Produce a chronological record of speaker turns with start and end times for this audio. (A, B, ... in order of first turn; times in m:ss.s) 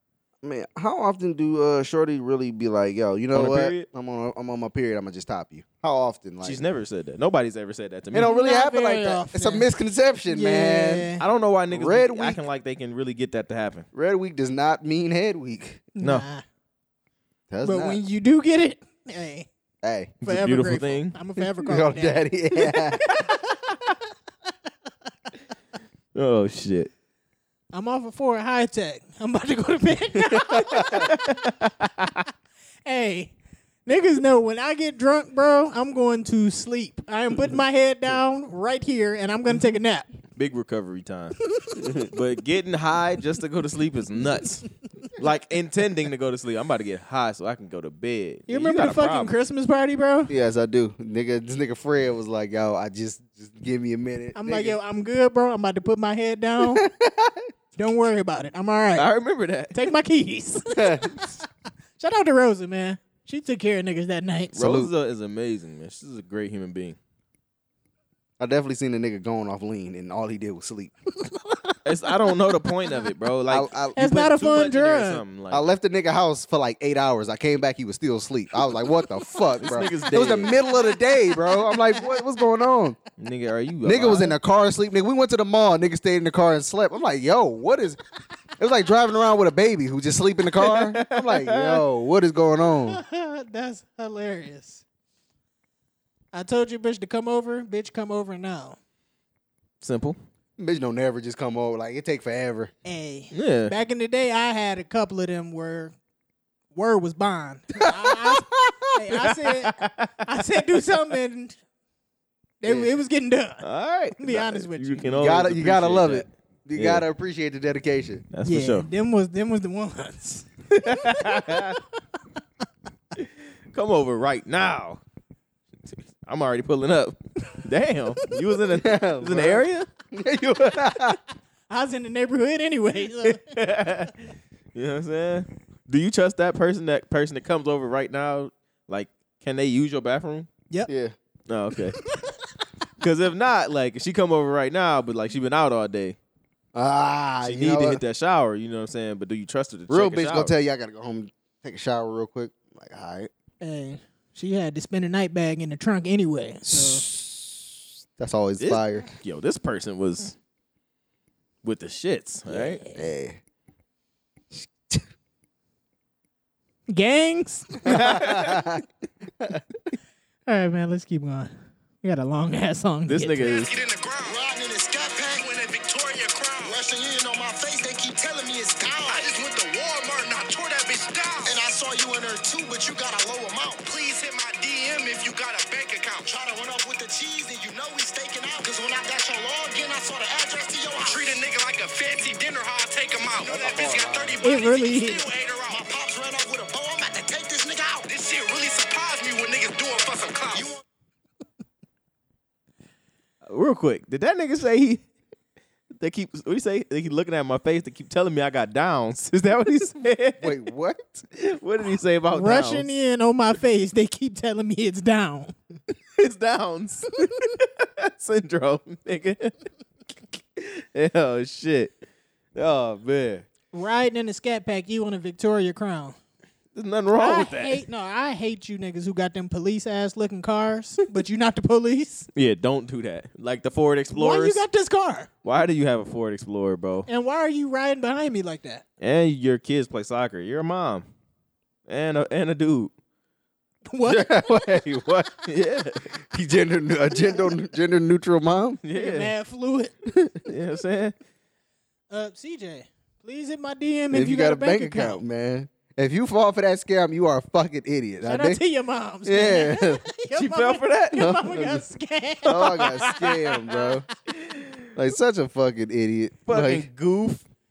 0:00.4-0:06.6 A
0:03.3-0:03.9 B
0:06.4-0:08.3 B
0:08.1-0:11.1 A
0:08.2-0:09.7 C
0:10.3-0:11.2 C
0:11.2-0:13.9 B
0:11.7-0:12.4 A
0:13.9-0:15.9 A
0:16.0-0:16.4 C
0:16.0-0:16.2 B
0:17.5-0:18.0 A
0:17.6-0:19.5 C
0:19.8-0:20.1 A
0:20.2-0:21.2 B
0:20.2-0:23.6 C
0:21.6-0:23.1 A
0:26.2-0:26.9 B
0:27.7-0:31.7 C
0:30.5-0:31.0 A
0:30.9-0:32.1 B
0:32.9-0:33.3 C
0:33.9-0:40.1 C
0:40.4-0:41.4 B
0:42.0-0:49.3 B
0:48.5-0:50.3 C
0:50.3-0:54.8 A
0:54.4-0:56.9 C
0:56.6-0:57.5 A
0:57.8-0:59.1 C
0:59.0-0:59.8 B
0:59.7-1:01.4 C
1:00.7-1:01.4 A
1:02.0-1:04.6 C
1:04.5-1:07.0 B
1:04.6-1:04.9 A
1:08.4-1:10.9 A
1:11.2-1:11.8 C
1:11.8-1:15.6 B
1:13.5-1:14.0 A
1:14.0-1:15.2 C
1:15.5-1:23.0 A
1:19.6-1:20.6 B
1:20.9-1:21.9 C
1:23.2-1:24.4 B
1:23.8-1:28.0 A
1:28.6-1:33.0 A
1:30.6-1:31.8 B
1:32.8-1:34.8 C
1:36.3-1:38.8 C
1:39.8-1:40.2 B
1:40.6-1:42.7 A
1:42.8-1:46.0 C
1:43.3-1:43.7 B
1:46.7-1:51.6 C
1:47.8-1:48.9 A
1:49.2-1:50.3 B
1:52.6-1:53.7 C
1:52.6-1:52.9 A
1:53.6-1:57.0 B
1:54.2-1:55.1 C
1:55.2-1:58.2 A
1:58.3-1:58.9 B
1:58.4-2:00.5 C
2:00.7-2:01.8 B
2:01.0-2:01.6 C
2:03.2-2:05.0 B
2:06.2-2:09.9 B
2:08.8-2:11.2 A
2:11.7-2:13.5 C
2:13.2-2:14.2 B
2:14.7-2:20.5 B
2:20.9-2:21.2 A
2:21.5-2:22.0 B
2:23.0-2:26.2 B
2:26.8-2:28.0 A
2:27.4-2:30.5 B
2:29.9-2:33.3 A
2:33.6-2:37.0 C
2:36.6-2:39.1 A
2:38.6-2:40.4 B
2:41.6-2:42.8 B
2:42.5-2:43.0 C
2:42.9-2:43.4 A
2:44.5-2:45.0 A
2:46.9-2:48.1 C
2:47.9-2:48.6 B
2:47.9-2:48.8 A
2:50.5-2:51.5 C
2:52.0-2:53.6 C
2:53.1-2:53.7 B
2:53.5-2:54.4 D
2:54.2-2:55.5 E
2:55.3-2:56.8 D
2:56.6-2:59.3 E
2:59.1-3:01.6 D
3:01.4-3:03.8 E
3:03.8-3:06.3 D
3:06.3-3:11.4 E
3:11.0-3:15.8 D
3:13.4-3:14.4 A
3:14.4-3:15.3 C
3:15.7-3:18.1 E
3:18.1-3:20.7 D
3:20.5-3:20.8 E
3:23.4-3:25.0 B
3:26.0-3:30.6 B
3:30.4-3:31.3 A
3:31.4-3:32.9 B
3:32.3-3:35.6 C
3:36.1-3:39.5 B
3:40.6-3:42.0 B
3:42.6-3:43.4 B
3:43.7-3:46.2 C
3:46.8-3:47.8 B
3:47.2-3:52.3 C
3:52.4-3:54.6 B
3:54.1-3:55.3 C
3:55.4-3:57.1 B
3:57.1-3:58.8 C
3:59.0-4:01.1 B
4:01.9-4:02.9 B
4:03.9-4:04.8 C
4:04.0-4:05.4 A
4:05.5-4:06.0 B
4:06.3-4:08.8 A
4:08.8-4:09.3 B
4:08.9-4:09.9 C
4:10.5-4:11.1 B
4:12.1-4:15.2 C
4:14.1-4:18.6 A
4:18.2-4:23.8 C
4:19.2-4:20.0 A
4:20.3-4:21.3 B
4:21.1-4:21.8 A
4:22.4-4:23.6 B
4:22.4-4:24.1 A
4:24.3-4:24.9 B
4:24.9-4:26.9 A
4:26.5-4:27.4 B